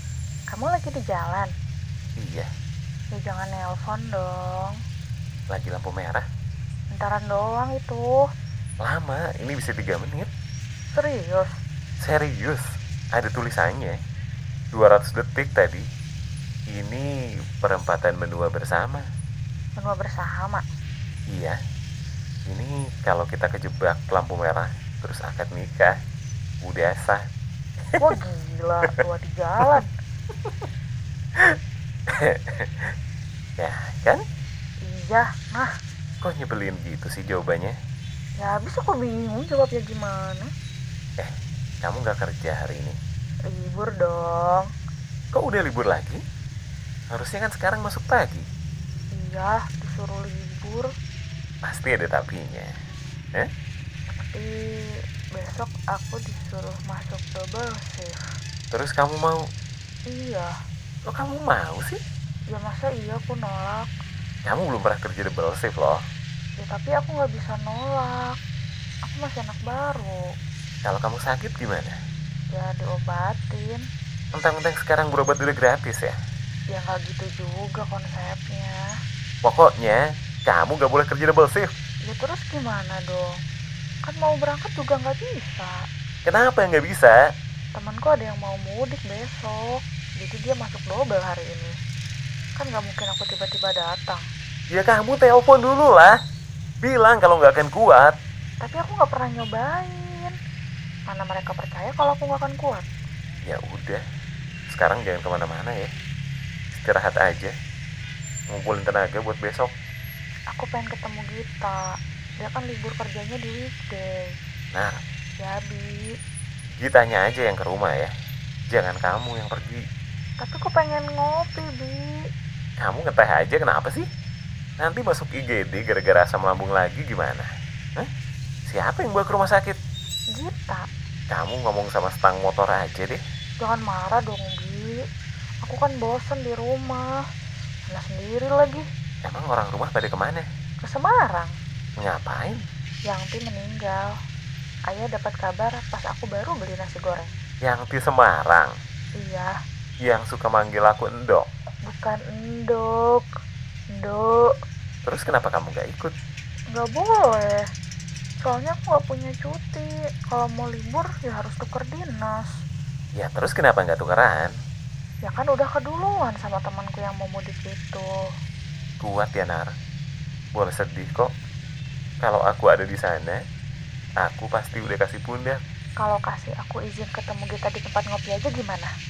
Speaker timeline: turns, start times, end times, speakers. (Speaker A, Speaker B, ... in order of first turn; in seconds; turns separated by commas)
Speaker A: 0.5-1.5, Speaker B: 2.2-2.5, Speaker A: 3.1-4.8, Speaker B: 5.5-6.2, Speaker A: 6.9-8.2, Speaker B: 8.8-10.3, Speaker A: 10.9-11.6, Speaker B: 12.0-14.0, Speaker B: 14.7-15.8, Speaker B: 16.7-17.1, Speaker B: 17.6-19.1, Speaker A: 19.8-20.6, Speaker B: 21.3-21.6, Speaker B: 22.5-26.0, Speaker B: 26.6-27.2, Speaker A: 28.0-29.9, Speaker B: 31.4-32.9, Speaker B: 33.6-34.2, Speaker A: 34.9-35.7, Speaker B: 36.2-37.8, Speaker A: 38.4-40.5, Speaker B: 41.2-43.0, Speaker A: 43.5-44.7, Speaker B: 45.3-46.2, Speaker B: 47.1-48.5, Speaker A: 49.1-50.9, Speaker B: 51.6-52.7, Speaker A: 54.1-58.2, Speaker B: 58.7-59.5, Speaker A: 60.1-60.5, Speaker B: 61.1-62.0, Speaker A: 62.5-63.9, Speaker B: 64.5-66.0, Speaker A: 66.6-68.4, Speaker A: 69.1-70.3, Speaker B: 70.8-72.0, Speaker A: 72.5-73.8, Speaker B: 74.3-76.2, Speaker A: 76.7-78.8, Speaker B: 79.4-81.7, Speaker A: 82.1-83.4, Speaker A: 84.0-85.8, Speaker B: 86.3-87.2, Speaker A: 87.8-91.7, Speaker A: 92.6-94.2, Speaker B: 94.7-96.2, Speaker B: 96.8-98.2, Speaker A: 98.6-100.3, Speaker A: 101.1-102.9, Speaker B: 103.5-104.0, Speaker B: 104.7-105.9, Speaker B: 106.7-107.5, Speaker B: 108.5-109.7, Speaker A: 110.5-111.8, Speaker A: 112.4-114.3, Speaker B: 114.7-115.0, Speaker A: 115.4-116.1, Speaker B: 116.8-118.1, Speaker B: 118.7-119.8, Speaker A: 120.4-122.2, Speaker B: 122.8-124.1, Speaker B: 124.8-128.1, Speaker B: 128.7-129.8, Speaker A: 130.3-130.9, Speaker B: 131.3-133.2, Speaker A: 133.6-135.0, Speaker A: 135.7-137.2, Speaker A: 137.9-138.8, Speaker B: 139.2-140.5, Speaker A: 140.8-141.6, Speaker B: 142.0-142.6, Speaker A: 143.1-144.1, Speaker A: 144.9-147.3, Speaker B: 147.7-148.7, Speaker A: 149.2-149.6, Speaker B: 150.0-151.5, Speaker A: 151.9-153.3, Speaker A: 153.9-154.5, Speaker B: 155.1-156.1, Speaker A: 156.7-157.7, Speaker A: 158.4-162.5, Speaker B: 163.2-164.5, Speaker A: 165.2-168.1, Speaker B: 169.0-169.7, Speaker B: 170.5-171.3, Speaker B: 172.2-173.4, Speaker B: 174.2-175.6, Speaker A: 176.0-178.9